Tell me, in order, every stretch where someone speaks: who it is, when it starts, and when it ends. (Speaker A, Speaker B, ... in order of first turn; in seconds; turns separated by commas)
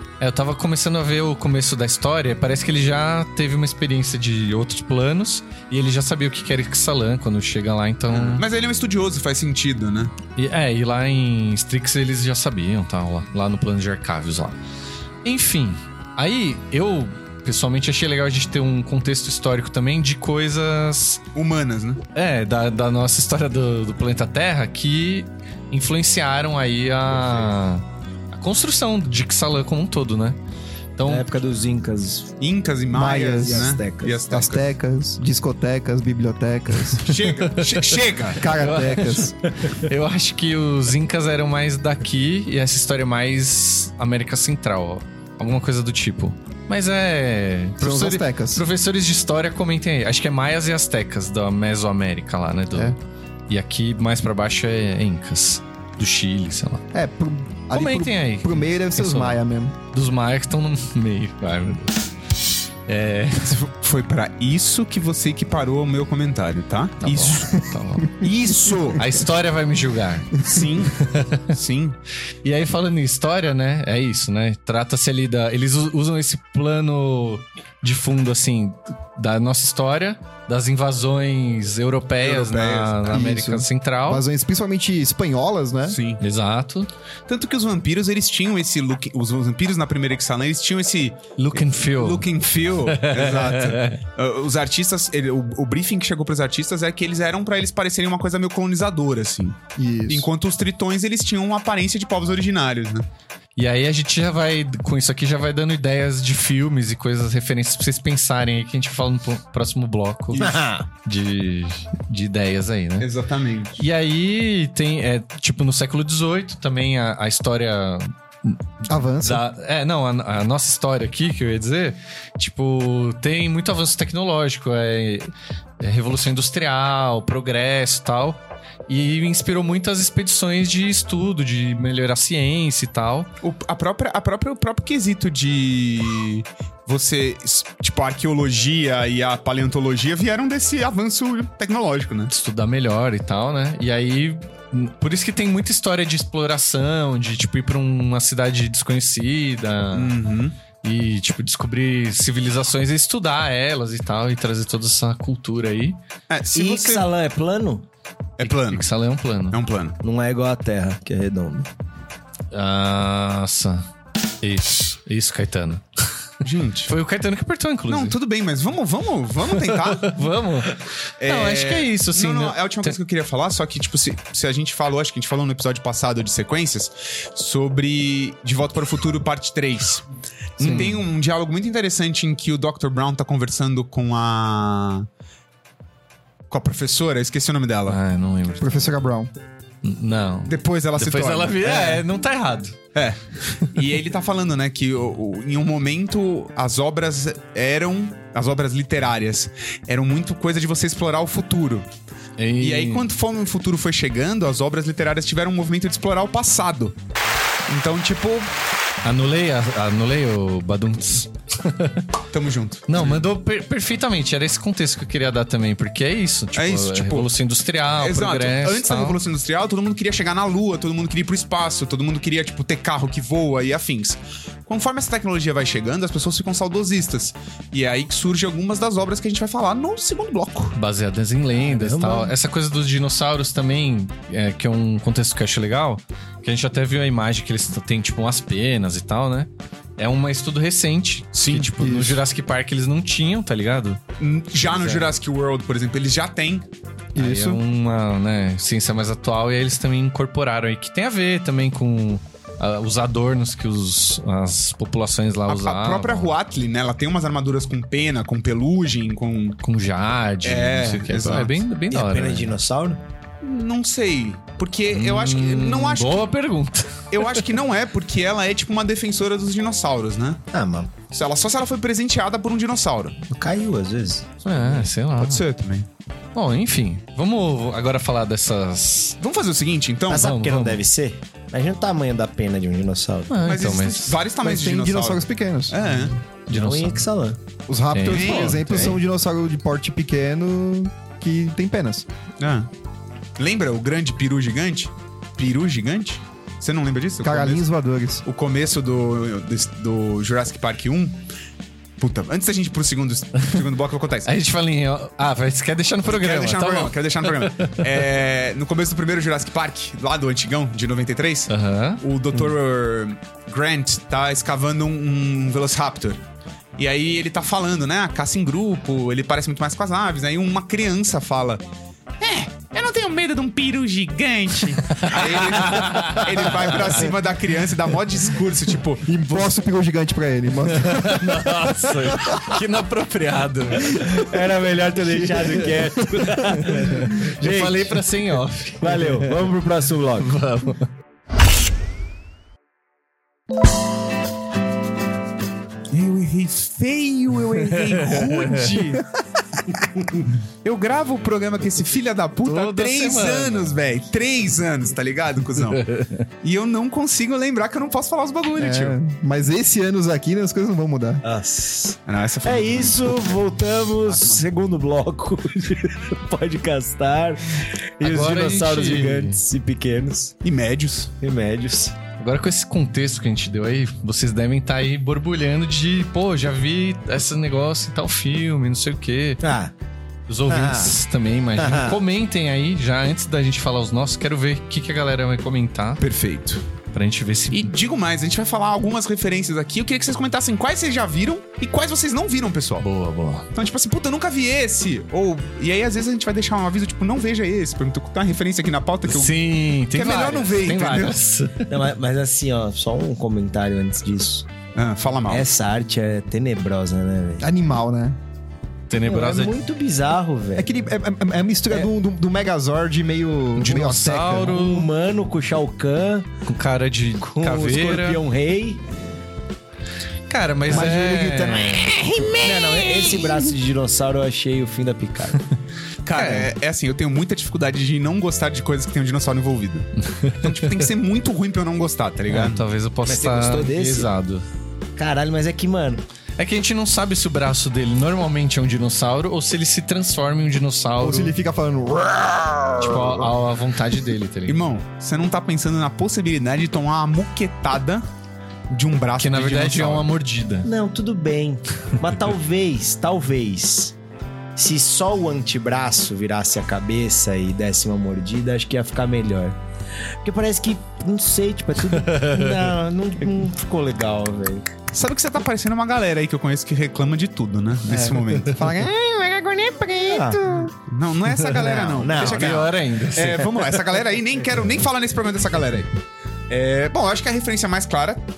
Speaker A: 0.2-8.4, Speaker B: 8.1-10.1, Speaker A: 10.3-14.6, Speaker A: 15.2-21.2, Speaker B: 21.3-22.0, Speaker A: 22.1-30.4, Speaker A: 31.0-31.3, Speaker C: 31.0-32.3, Speaker B: 32.4-34.6, Speaker D: 32.9-33.8, Speaker C: 33.4-34.2, Speaker D: 34.3-37.1, Speaker B: 37.0-38.4, Speaker A: 37.5-53.0, Speaker D: 38.4-39.3, Speaker D: 47.8-48.6, Speaker A: 53.5-56.8, Speaker D: 56.9-59.7, Speaker A: 57.7-62.1, Speaker A: 62.9-63.6, Speaker B: 63.4-67.5, Speaker A: 67.0-68.2, Speaker D: 68.1-69.2, Speaker B: 68.2-69.0, Speaker A: 69.0-70.4, Speaker B: 70.4-72.0, Speaker A: 71.0-71.5, Speaker A: 72.4-84.2, Speaker B: 82.2-83.2, Speaker D: 83.1-86.0, Speaker B: 85.9-86.2, Speaker A: 86.2-86.9, Speaker B: 87.3-103.0, Speaker A: 91.4-92.2, Speaker A: 92.9-94.0, Speaker D: 99.8-100.3, Speaker A: 103.5-110.5, Speaker B: 110.3-110.6, Speaker C: 110.4-110.9, Speaker A: 111.0-113.1, Speaker B: 113.0-113.8, Speaker A: 113.8-133.3, Speaker D: 118.9-119.4, Speaker B: 133.4-142.3, Speaker A: 142.3-150.1, Speaker B: 149.9-150.6, Speaker A: 150.8-156.0, Speaker B: 156.3-157.1, Speaker C: 156.5-157.8, Speaker B: 158.4-158.8, Speaker A: 158.4-159.6, Speaker B: 159.5-160.0, Speaker C: 160.0-161.7, Speaker A: 162.5-163.9, Speaker A: 164.4-166.2, Speaker B: 166.4-166.9, Speaker A: 166.8-168.2, Speaker B: 167.9-170.2, Speaker A: 169.5-172.9, Speaker B: 171.2-180.0, Speaker B: 180.6-185.1, Speaker A: 180.6-181.0, Speaker C: 180.6-180.9, Speaker B: 186.5-188.0, Speaker A: 187.9-189.0, Speaker D: 188.6-189.3, Speaker A: 189.8-192.8, Speaker B: 190.5-192.0, Speaker B: 192.9-201.8, Speaker A: 202.4-203.1, Speaker B: 202.6-206.9, Speaker B: 207.7-208.5, Speaker A: 209.0-212.1, Speaker B: 212.3-213.2, Speaker A: 212.9-219.2, Speaker B: 216.5-217.3, Speaker B: 218.0-230.8, Speaker A: 230.7-244.0, Speaker C: 231.6-232.3, Speaker B: 241.3-241.7, Speaker D: 241.8-242.2, Speaker B: 244.2-246.7, Speaker A: 244.6-245.1, Speaker D: 247.1-247.6, Speaker A: 247.2-256.3, Speaker B: 255.5-259.6, Speaker A: 259.6-262.6, Speaker B: 260.4-261.6, Speaker C: 261.9-263.0, Speaker B: 263.4-266.3, Speaker A: 264.9-267.4, Speaker B: 267.1-270.4, Speaker C: 270.5-270.9, Speaker B: 271.1-273.2, Speaker C: 273.3-274.3, Speaker A: 274.4-275.4, Speaker B: 275.2-275.9, Speaker A: 276.3-279.2, Speaker B: 279.2-280.4, Speaker C: 280.1-283.4, Speaker A: 280.1-280.8, Speaker A: 283.3-284.2, Speaker B: 283.4-286.2, Speaker D: 284.4-285.8, Speaker A: 286.5-287.1, Speaker C: 286.5-287.4, Speaker D: 287.7-292.1, Speaker A: 287.9-289.0, Speaker B: 288.1-288.7, Speaker B: 292.4-292.7, Speaker B: 293.4-297.6, Speaker D: 297.2-298.2, Speaker B: 298.2-301.2, Speaker B: 302.0-304.3, Speaker A: 304.2-307.8, Speaker B: 306.1-316.2, Speaker A: 311.5-312.0, Speaker B: 316.8-321.6, Speaker B: 322.2-329.4, Speaker A: 324.9-326.8, Speaker D: 329.1-332.4, Speaker A: 330.7-334.2, Speaker C: 333.9-338.0, Speaker A: 336.5-339.3, Speaker C: 338.8-340.3, Speaker A: 340.2-340.9, Speaker B: 345.9-349.0, Speaker A: 347.7-349.0, Speaker B: 349.7-355.8, Speaker A: 352.4-353.8, Speaker A: 355.7-356.2, Speaker B: 356.4-359.0, Speaker D: 358.6-361.2, Speaker C: 361.2-370.3, Speaker B: 362.1-363.5, Speaker B: 364.0-364.4, Speaker A: 368.0-369.4, Speaker B: 370.4-371.1, Speaker C: 371.2-371.9, Speaker A: 372.2-379.4, Speaker C: 379.4-379.7, Speaker A: 380.3-386.0, Speaker C: 380.5-381.0, Speaker C: 381.6-382.0, Speaker B: 386.0-386.6, Speaker A: 386.9-387.7, Speaker B: 387.5-392.8, Speaker A: 392.8-393.5, Speaker B: 393.5-399.4, Speaker A: 399.1-401.8, Speaker B: 399.9-401.2, Speaker C: 401.7-404.5, Speaker B: 404.7-405.5, Speaker C: 405.3-407.5, Speaker D: 407.4-408.2, Speaker A: 408.9-409.6, Speaker C: 409.0-410.7, Speaker D: 410.6-414.6, Speaker A: 413.6-414.9, Speaker C: 414.4-416.3, Speaker A: 416.4-418.2, Speaker C: 417.2-418.8, Speaker A: 420.3-423.5, Speaker D: 420.7-422.1, Speaker C: 422.4-425.4, Speaker B: 426.0-432.6, Speaker A: 426.1-426.5, Speaker A: 430.0-430.7, Speaker A: 432.3-434.4, Speaker C: 433.1-434.1, Speaker C: 434.9-436.0, Speaker A: 436.4-441.3, Speaker D: 441.0-443.3, Speaker A: 442.8-444.6, Speaker B: 444.5-448.0, Speaker B: 448.7-450.1, Speaker A: 449.2-450.7, Speaker C: 450.6-453.9, Speaker C: 454.5-459.6, Speaker C: 460.2-464.7, Speaker A: 462.0-462.7, Speaker B: 464.9-468.6, Speaker C: 467.9-468.3, Speaker D: 468.5-470.7, Speaker C: 470.1-470.4, Speaker B: 470.9-475.9, Speaker C: 471.4-472.7, Speaker A: 472.1-473.4, Speaker B: 476.5-478.2